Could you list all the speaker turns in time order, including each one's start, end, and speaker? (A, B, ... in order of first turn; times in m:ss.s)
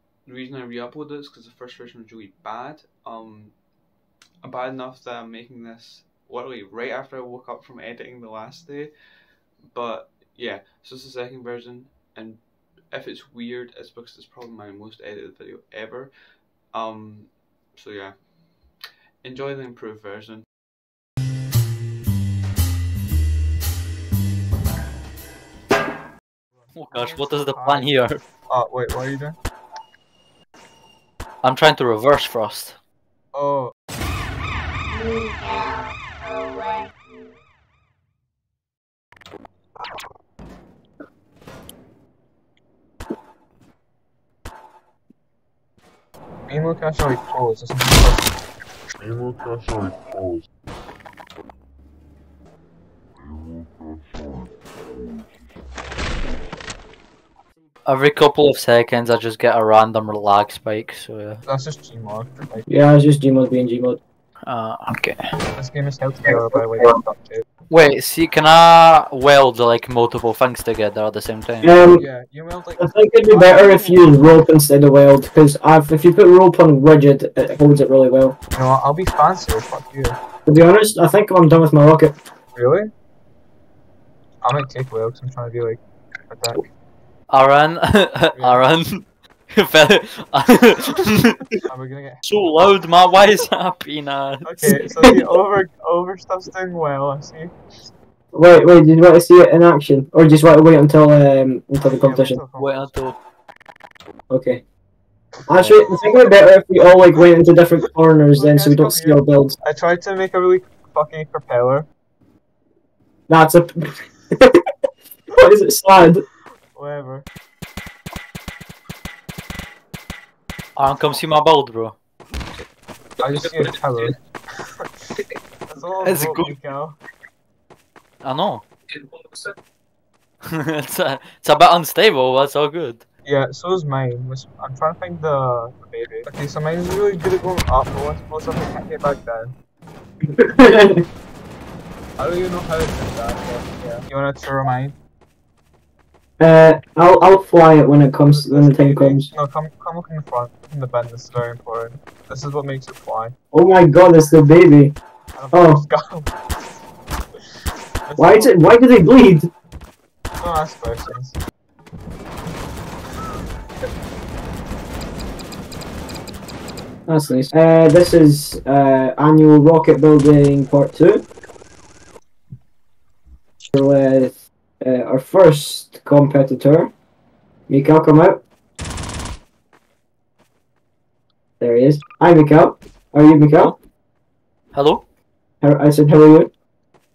0:00.2-0:03.6 A
0:04.4-0:08.9 A
0:09.6-0:20.5 A
0:26.6-0:27.9 B
0:26.7-0:28.2 C
0:28.5-0:29.4 B
0:31.4-0:32.8 C
0:33.3-0:33.7 B
0:46.5-0:48.4 B
0:49.0-0:50.4 D
0:53.3-0:54.5 D
0:57.8-1:01.4 C
1:01.5-1:02.7 B
1:02.7-1:04.0 E
1:04.4-1:05.3 C
1:05.6-1:07.4 B
1:07.7-1:11.8 C
1:11.6-1:12.1 E
1:11.9-1:14.4 B
1:12.8-1:18.4 E
1:18.5-1:20.2 B
1:20.5-1:22.2 E
1:22.6-1:22.9 B
1:24.4-1:26.6 B
1:27.3-1:31.6 C
1:28.4-1:28.7 B
1:31.7-1:33.3 B
1:32.2-1:34.5 C
1:34.4-1:37.5 B
1:34.6-1:35.2 E
1:38.3-1:42.4 E
1:41.8-1:43.0 B
1:42.6-1:43.2 C
1:44.3-1:44.6 E
1:45.5-1:49.6 E
1:48.3-1:51.9 B
1:53.3-1:54.6 E
1:55.3-1:56.2 E
1:56.7-1:57.3 B
2:00.8-2:02.0 C
2:03.2-2:04.9 B
2:05.7-2:07.0 B
2:06.0-2:06.5 C
2:08.2-2:09.4 C
2:10.5-2:13.0 C
2:13.2-2:19.5 B
2:20.4-2:21.0 E
2:22.2-2:25.0 B
2:26.4-2:29.3 E
2:28.3-2:33.3 B
2:33.5-2:35.0 E
2:35.3-2:36.8 B
2:35.5-2:35.8 E
2:38.0-2:38.6 B
2:38.2-2:39.5 E
2:40.4-2:41.4 B
2:47.1-2:51.3 E
2:53.7-2:56.9 E
2:57.7-2:58.4 E
3:01.6-3:03.8 E
3:04.7-3:05.0 C
3:05.6-3:06.5 E